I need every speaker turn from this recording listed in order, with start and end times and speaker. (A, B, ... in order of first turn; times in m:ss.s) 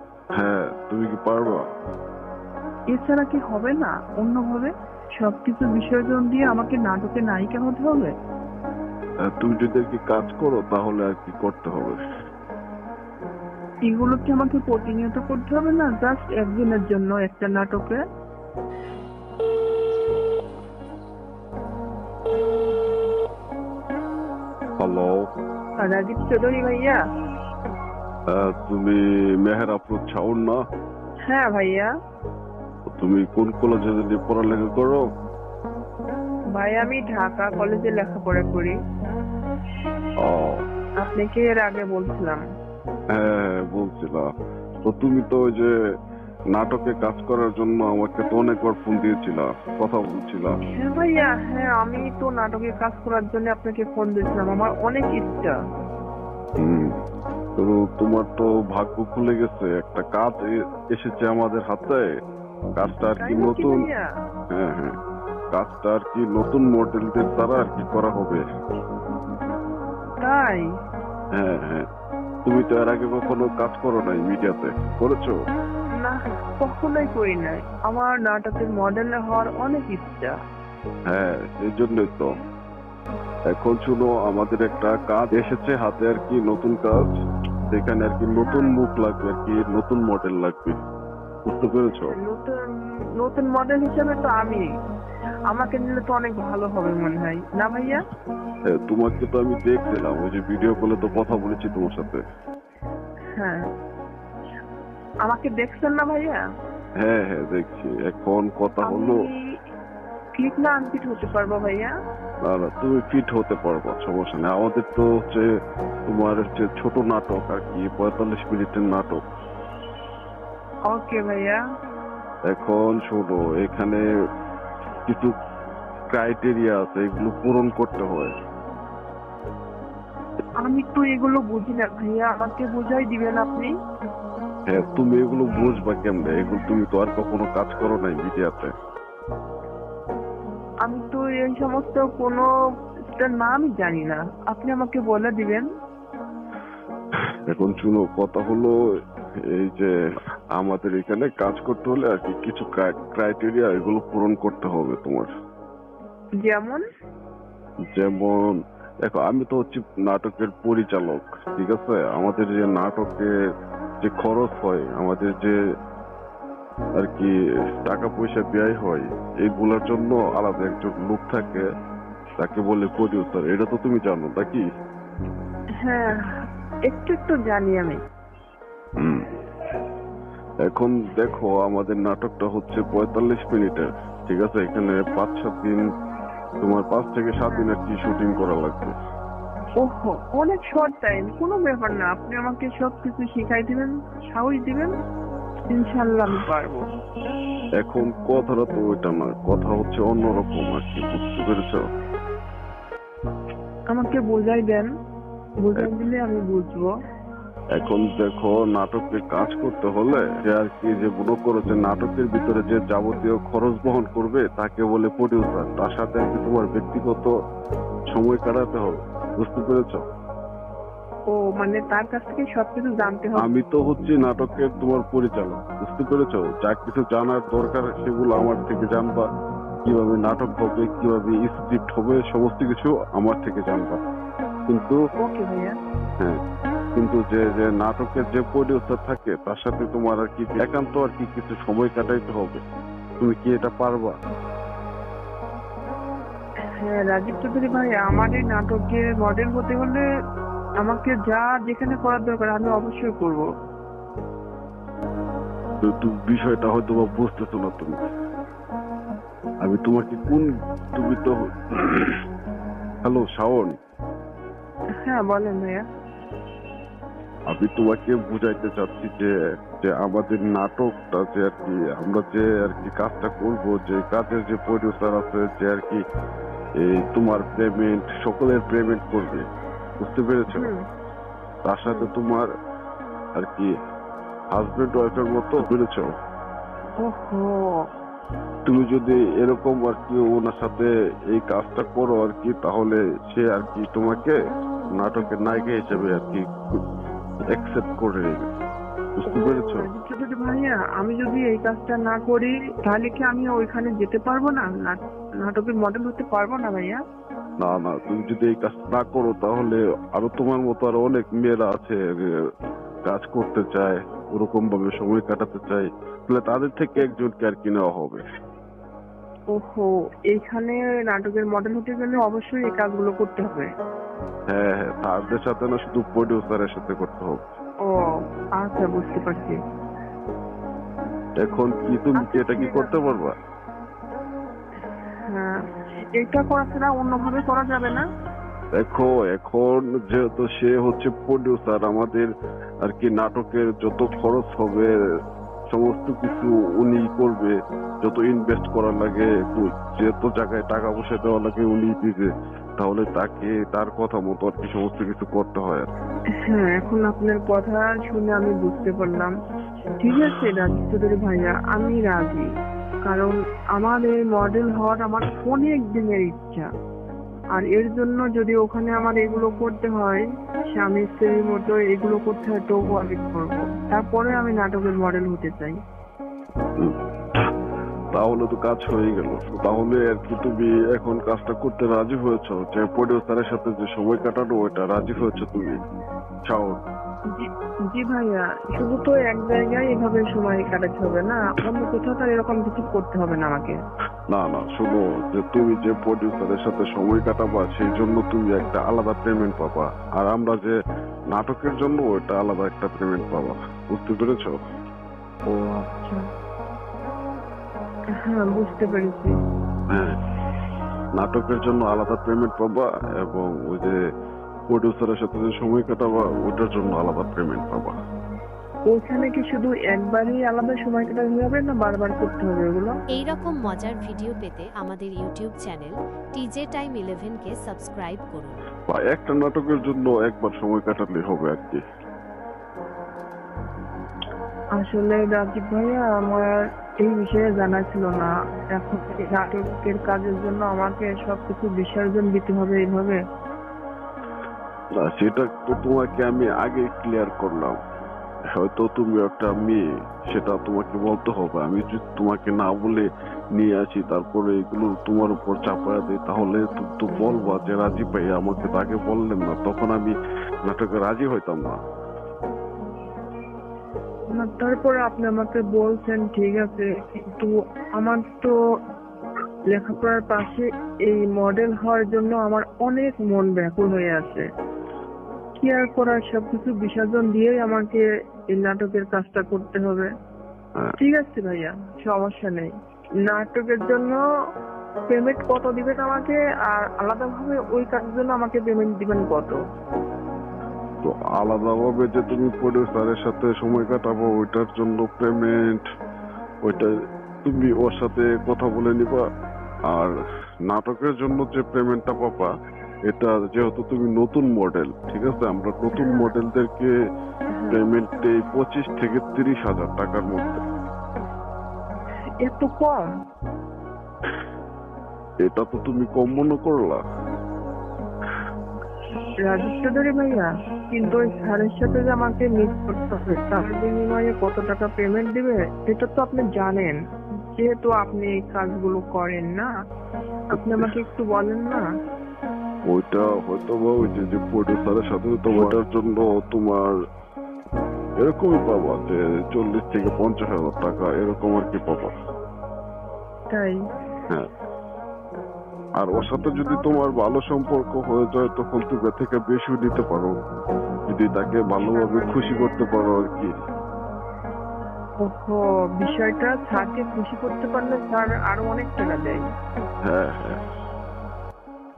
0:00.4-0:01.7 A
0:02.9-0:08.1 B
0:09.2-0:12.0 A
0:13.9-0:18.0 B
0:24.8-0:25.3 A
0:25.8-0:27.0 B
0:28.3-0:30.6 A
0:31.3-0:31.9 B
0:32.9-0:35.0 A
0:36.5-0:38.7 B
0:40.2-0:40.6 A
0:41.0-0:42.4 B
0:43.1-0:44.3 A
0:44.8-0:45.7 A
0:46.5-0:50.5 A
0:50.7-0:55.5 B
0:56.6-0:56.9 A
0:57.6-1:02.1 A
1:02.8-1:03.8 A
1:03.2-1:04.0 B
1:04.5-1:04.9 A
1:05.5-1:08.4 A
1:10.2-1:10.6 B
1:11.4-1:11.8 A
1:12.4-1:15.4 A
1:16.0-1:20.4 B
1:21.1-1:22.3 A
1:23.5-1:27.1 A
1:27.7-1:30.8 A
1:28.4-1:28.8 B
1:31.4-1:32.1 A
1:32.1-1:32.6 B
1:33.2-1:34.6 B
1:35.5-1:38.0 B
1:38.7-1:42.2 A
1:43.4-1:43.6 B
1:45.2-1:46.4 B
1:47.0-1:49.2 A
1:48.8-1:49.4 B
1:50.4-1:51.9 B
1:52.4-1:55.5 A
1:56.0-1:59.2 A
2:00.9-2:01.6 B
2:02.5-2:04.0 A
2:05.0-2:05.3 A
2:06.1-2:08.3 A
2:10.6-2:13.7 B
2:14.7-2:18.7 A
2:20.8-2:22.4 B
2:23.1-2:25.7 B
2:27.5-2:28.7 A
2:29.4-2:29.9 A
2:30.5-2:35.3 A
2:36.4-2:36.8 B
2:37.9-2:43.3 A
2:44.0-2:45.6 A
2:47.0-2:51.6 A
2:52.4-2:54.6 A
2:55.8-2:56.3 B
2:56.9-2:58.0 B
2:59.0-2:59.3 A
3:00.6-3:05.8 A
3:06.6-3:08.9 A
3:09.8-3:14.9 B
3:15.7-3:16.8 B
3:17.8-3:21.8 A
3:23.9-3:24.9 B
3:25.6-3:26.9 B
3:27.7-3:37.3 A
3:38.1-3:40.0 A
3:41.3-3:43.4 B
3:43.4-3:49.3 A
3:49.8-3:54.0 A
3:54.7-3:55.0 A
3:55.2-3:55.8 B
3:57.0-4:02.6 A
4:03.2-4:04.1 A
4:06.8-4:10.0 B
4:10.8-4:13.4 B
4:15.8-4:18.0 A
4:19.6-4:22.2 A
4:23.0-4:23.7 A
4:25.0-4:25.8 B
4:27.5-4:36.0 A
4:36.8-4:39.4 A
4:40.0-4:40.7 A
4:41.6-4:42.5 A
4:43.4-4:43.7 A
4:44.5-4:46.1 A
4:47.0-4:47.8 B
4:48.6-4:54.4 A
4:55.0-4:56.8 A
4:57.5-4:58.5 A
4:59.2-4:59.9 A
4:59.3-5:07.0 B
5:07.6-5:12.3 A
5:13.0-5:18.2 A
5:19.5-5:23.7 B
5:24.5-5:27.6 A
5:27.9-5:29.6 B
5:31.4-5:33.3 A
5:32.2-5:32.9 B
5:35.2-5:35.6 B
5:36.1-5:38.0 B
5:38.8-5:42.3 A
5:42.8-5:44.9 A
5:45.7-5:55.9 A
5:56.4-5:59.3 B
6:00.0-6:02.4 B
6:03.0-6:06.7 B
6:07.5-6:15.8 B
6:18.1-6:25.8 A
6:26.5-6:26.8 A
6:27.3-6:33.8 B
6:34.3-6:40.7 A
6:41.3-6:44.5 A
6:45.5-6:46.2 B
6:48.2-6:49.3 B
6:49.9-6:50.2 A
6:51.2-6:54.0 A
6:54.7-6:57.9 A
6:58.9-7:02.9 B
7:03.1-7:08.6 C
7:08.9-7:11.8 A
7:14.8-7:23.2 B
7:25.0-7:27.8 A
7:28.5-7:40.1 A
7:40.6-7:41.8 A
7:44.3-7:48.5 B
7:49.7-7:54.4 B
7:55.6-7:58.0 B
7:58.5-8:00.1 B
8:01.0-8:02.7 B
8:03.2-8:04.2 B
8:05.1-8:09.6 B
8:11.0-8:15.8 A
8:16.6-8:19.2 A
8:20.7-8:22.5 A
8:23.1-8:26.9 A
8:26.0-8:26.3 B
8:27.7-8:30.6 A
8:32.4-8:33.1 B
8:35.4-8:37.0 A
8:39.4-8:47.0 B
8:47.6-8:49.7 B
8:50.5-8:51.8 B
8:50.5-8:50.9 A
8:52.9-8:57.0 A
8:58.2-9:02.1 A
9:03.5-9:03.8 B
9:06.0-9:10.3 A
9:11.1-9:13.5 A
9:11.9-9:12.7 B
9:15.2-9:19.4 B
9:20.0-9:20.6 A